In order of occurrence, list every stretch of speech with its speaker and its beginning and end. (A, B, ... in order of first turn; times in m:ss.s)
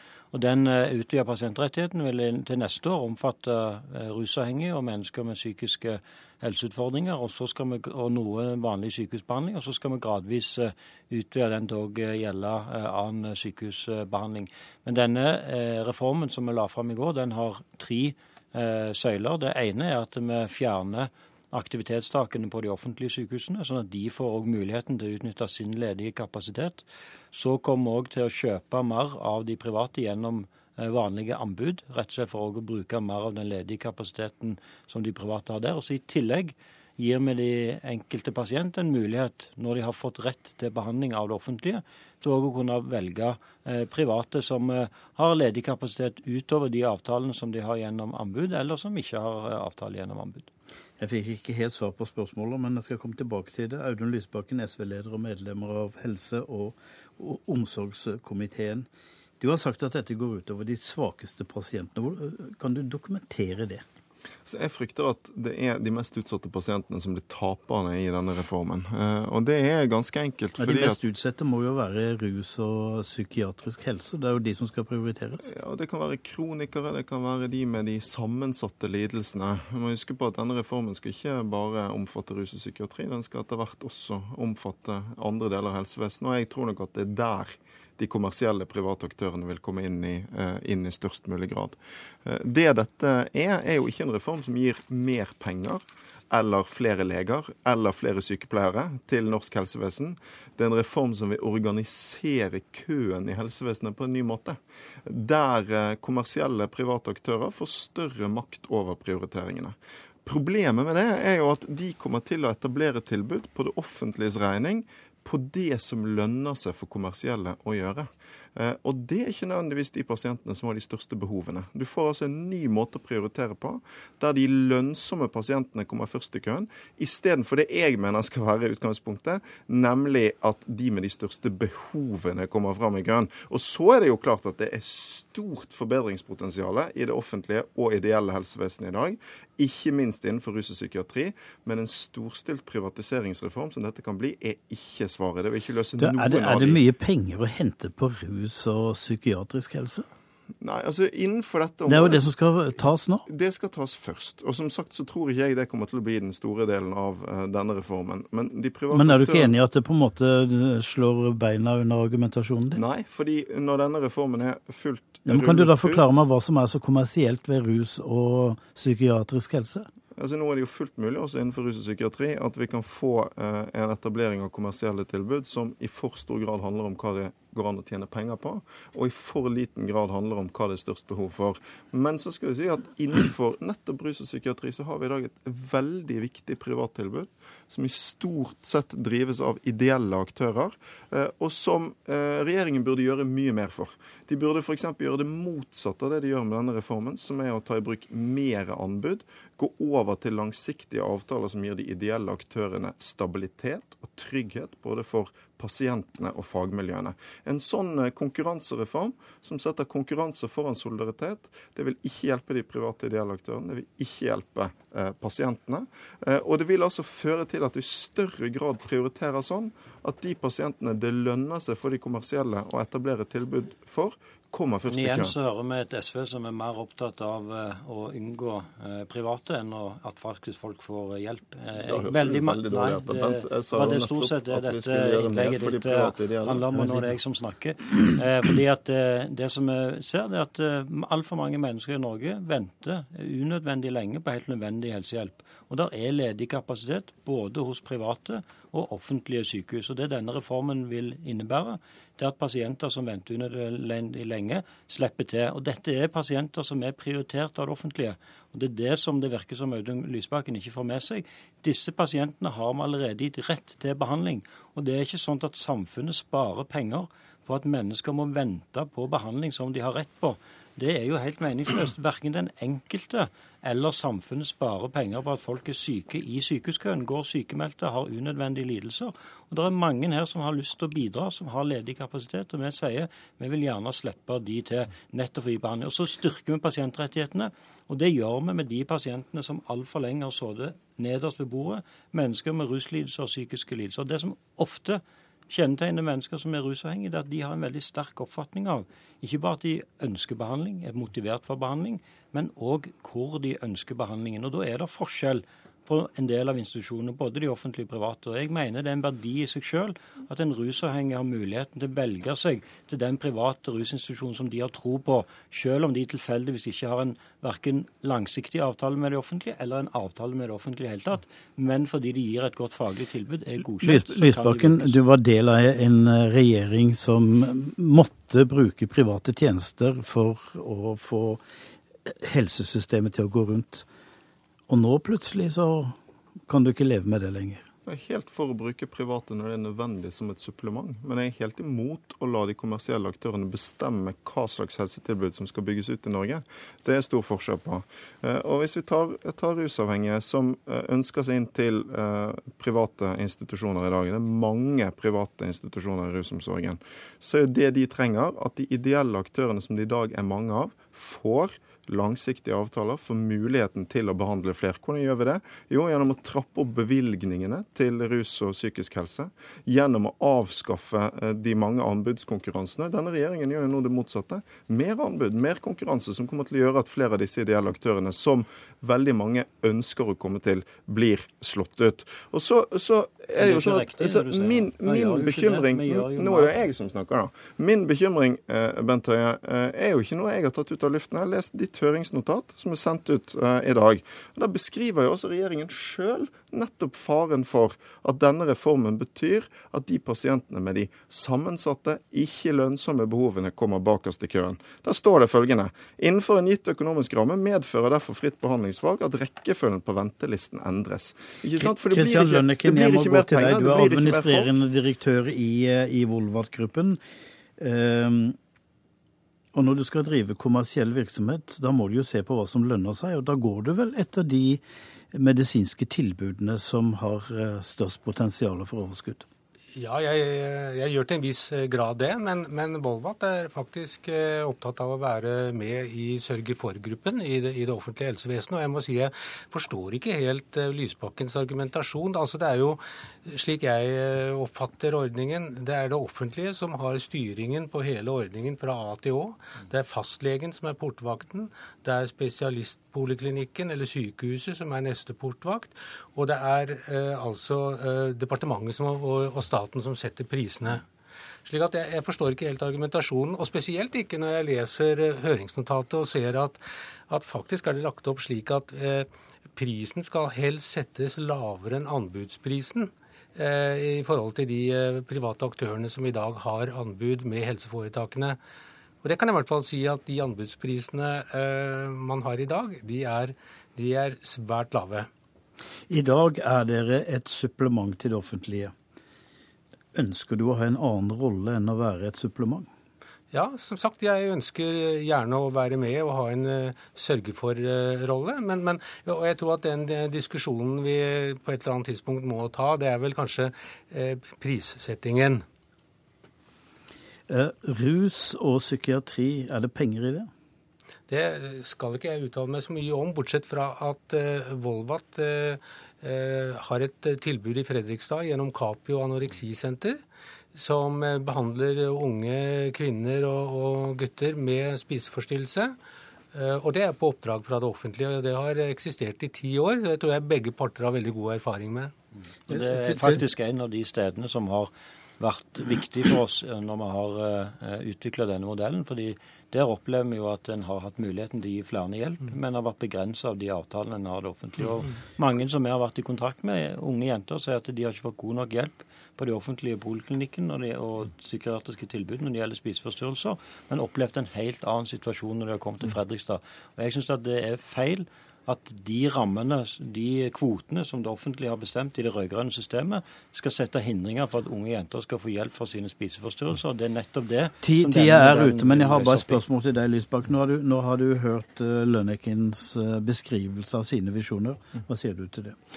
0:00.3-0:50.5 A
0:51.0-0:58.9 B
0:59.4-1:03.8 B
1:04.4-1:11.0 C
1:10.6-1:15.5 B
1:15.4-2:26.8 C
2:26.0-2:30.0 B
2:30.6-2:32.3 C
2:31.9-2:33.2 B
2:33.3-2:39.5 C
2:38.9-2:42.8 B
2:42.7-2:46.2 C
2:45.2-2:49.9 B
2:50.2-3:45.3 C
3:44.9-5:25.0 A
3:51.8-3:57.1 C
5:23.8-5:31.4 B
5:32.0-5:33.9 B
5:34.7-5:36.0 B
5:36.5-5:37.6 B
5:37.8-6:54.5 C
6:23.4-6:26.5 A
6:51.6-6:57.0 B
6:57.6-6:58.4 B
6:59.5-7:09.2 B
7:09.7-7:40.8 D
7:41.4-7:58.4 D
7:59.0-8:05.1 D
8:05.9-8:08.7 B
8:09.9-8:12.7 B
8:13.3-8:25.4 D
8:27.3-8:30.3 B
8:31.1-8:40.0 D
8:40.5-8:45.8 D
8:46.3-8:51.9 D
8:52.5-9:29.4 A
8:52.5-8:53.2 B
9:27.6-9:35.6 B